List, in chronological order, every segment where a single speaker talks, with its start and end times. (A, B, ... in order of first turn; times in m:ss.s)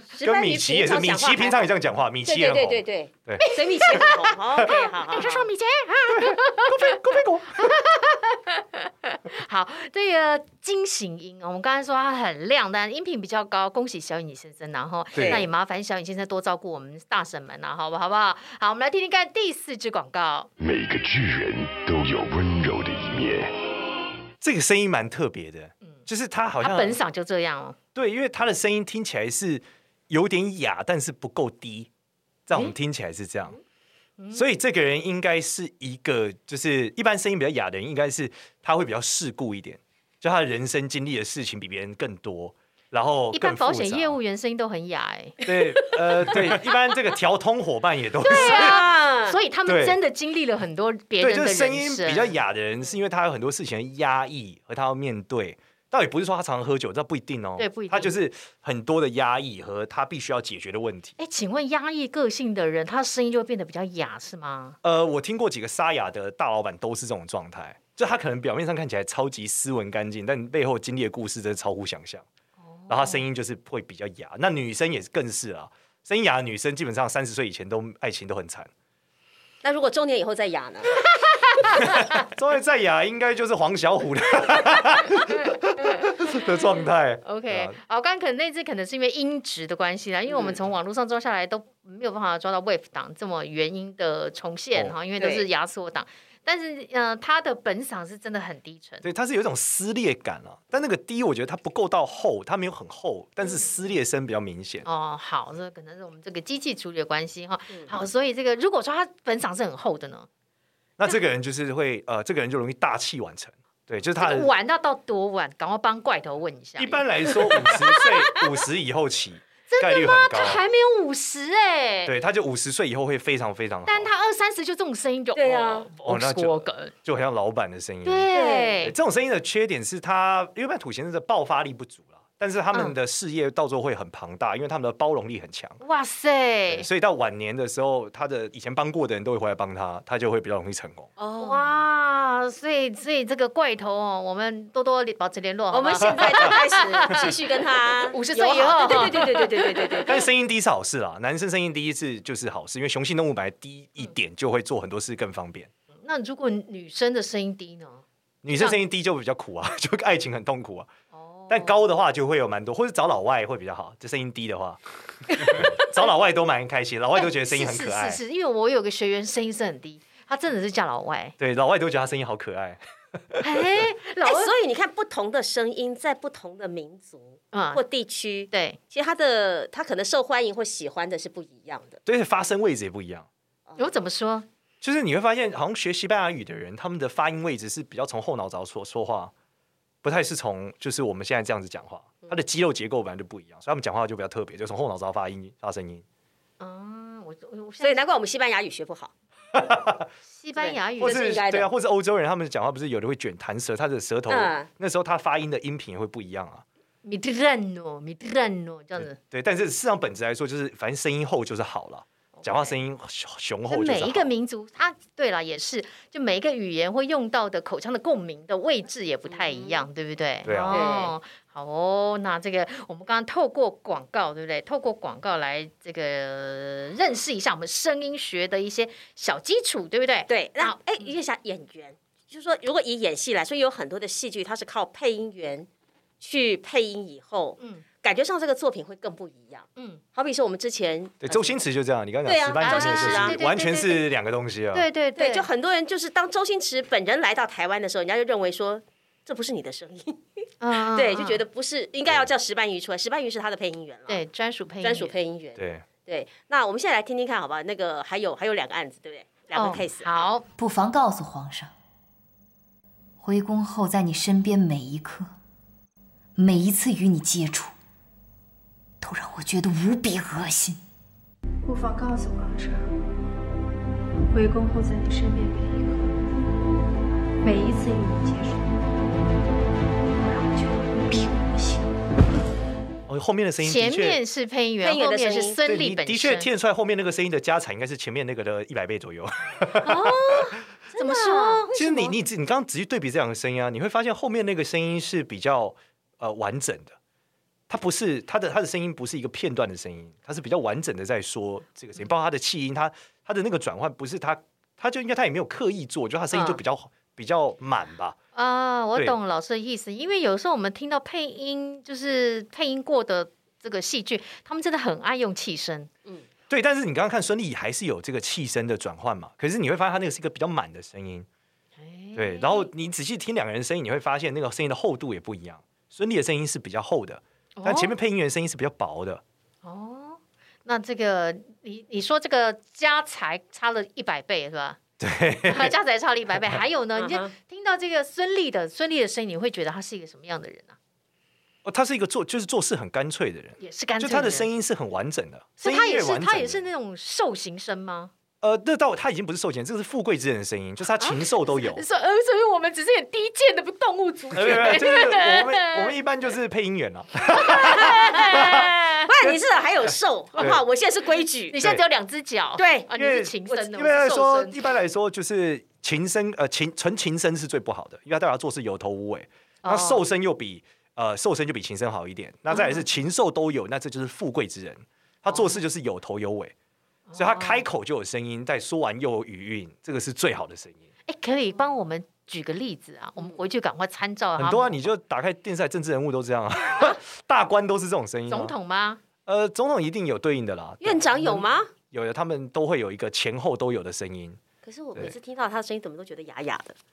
0:00.1-0:01.7 A
0:00.2-0:04.8 B
0:02.2-0:05.5 A
0:03.4-0:04.2 C
0:05.1-0:07.0 C
0:06.1-0:07.8 B
0:07.6-0:20.5 C
0:15.2-0:15.4 B
0:15.2-0:15.4 A
0:20.6-0:23.5 D
0:24.4-0:27.0 B
0:26.6-0:27.8 C
0:28.0-0:31.9 B
0:32.5-0:33.6 B
0:34.2-0:34.4 C
0:34.3-0:44.2 B
0:43.3-0:45.5 C
0:45.4-0:48.8 B
0:48.2-0:52.4 C
0:48.3-0:49.4 A
0:49.7-0:50.0 B
0:51.2-1:01.2 B
0:57.6-0:58.2 C
1:01.2-1:04.8 C
1:04.8-1:12.3 B
1:12.6-1:13.2 C
1:12.9-1:18.7 B
1:19.6-1:20.9 A
1:21.7-1:22.2 C
1:21.8-1:27.8 B
1:27.2-1:39.0 C
1:30.3-1:30.6 A
1:35.2-1:35.5 A
1:39.0-1:44.9 B
1:44.8-1:50.3 C
1:51.0-1:54.5 B
1:54.2-1:58.1 C
1:56.8-2:00.6 B
1:59.7-2:02.1 C
2:02.1-2:04.1 B
2:03.9-2:06.9 C
2:05.4-2:05.9 A
2:06.0-2:08.3 B
2:08.0-2:09.0 C
2:08.3-2:08.8 A
2:08.8-2:15.8 B
2:15.8-2:16.9 C
2:16.7-2:21.1 B
2:21.2-2:21.6 A
2:21.4-2:27.3 C
2:25.7-2:30.2 A
2:28.1-2:30.1 C
2:30.1-2:35.7 B
2:36.0-2:38.8 C
2:38.4-2:40.9 B
2:41.1-2:41.8 C
2:41.5-2:48.2 B
2:45.3-2:45.7 C
2:47.4-2:51.4 C
2:51.4-2:53.4 B
2:53.4-2:54.5 C
2:54.2-3:02.0 A
2:57.5-2:57.8 C
2:58.5-2:58.8 C
3:02.1-3:03.3 B
3:03.8-3:04.5 C
3:04.8-3:09.3 B
3:10.0-3:16.0 B
3:16.6-3:18.0 C
3:17.8-3:19.1 A
3:19.6-3:20.1 B
3:20.3-3:21.3 C
3:20.6-3:21.7 A
3:21.0-3:26.6 B
3:24.3-3:24.7 A
3:27.0-3:29.2 C
3:29.0-3:34.3 B
3:32.4-3:32.7 A
3:33.7-3:51.1 C
3:39.3-3:39.8 A
3:40.4-3:40.9 B
3:40.7-3:41.1 A
3:50.3-3:55.7 A
3:56.2-4:01.6 A
3:57.6-3:57.8 C
4:01.2-4:04.8 B
4:02.2-4:03.4 A
4:02.6-4:04.1 C
4:04.7-4:05.5 C
4:05.2-4:10.2 A
4:10.6-4:11.4 C
4:10.8-4:14.2 A
4:14.1-4:15.1 C
4:14.8-4:20.2 A
4:15.6-4:15.9 B
4:19.5-4:20.4 C
4:20.6-4:21.7 E
4:23.2-4:25.3 E
4:26.4-4:27.7 E
4:29.0-4:30.8 E
4:31.6-4:33.0 F
4:34.3-4:36.5 F
4:37.4-4:39.3 F
4:40.0-4:42.0 F
4:43.1-4:44.2 B
4:43.6-4:46.5 C
4:44.8-4:45.6 A
4:45.6-4:50.1 B
4:49.8-4:51.6 C
4:50.9-4:52.1 A
4:51.7-4:57.0 B
4:57.7-5:08.2 B
5:06.3-5:06.6 A
5:08.4-5:15.9 C
5:16.5-5:21.3 B
5:21.8-5:22.7 C
5:22.2-5:29.2 B
5:27.6-5:28.0 C
5:29.6-5:34.8 C
5:35.0-5:35.7 B
5:35.5-5:40.8 C
5:37.0-5:37.3 A
5:41.6-5:46.6 B
5:43.6-5:44.5 C
5:45.6-5:48.1 C
5:48.4-5:51.8 B
5:51.8-5:55.9 C
5:54.3-5:59.4 B
5:57.3-5:58.6 C
5:57.6-6:01.6 A
6:01.5-6:04.6 C
6:01.6-6:01.8 B
6:02.6-6:02.9 A
6:03.0-6:16.5 B
6:09.6-6:10.0 C
6:12.5-6:12.8 C
6:15.3-6:15.6 C
6:17.1-6:17.7 C
6:17.2-6:20.8 B
6:21.1-6:24.8 C
6:24.4-6:28.5 B
6:28.3-6:29.0 C
6:29.3-6:34.4 B
6:30.8-6:31.7 A
6:34.6-6:36.8 A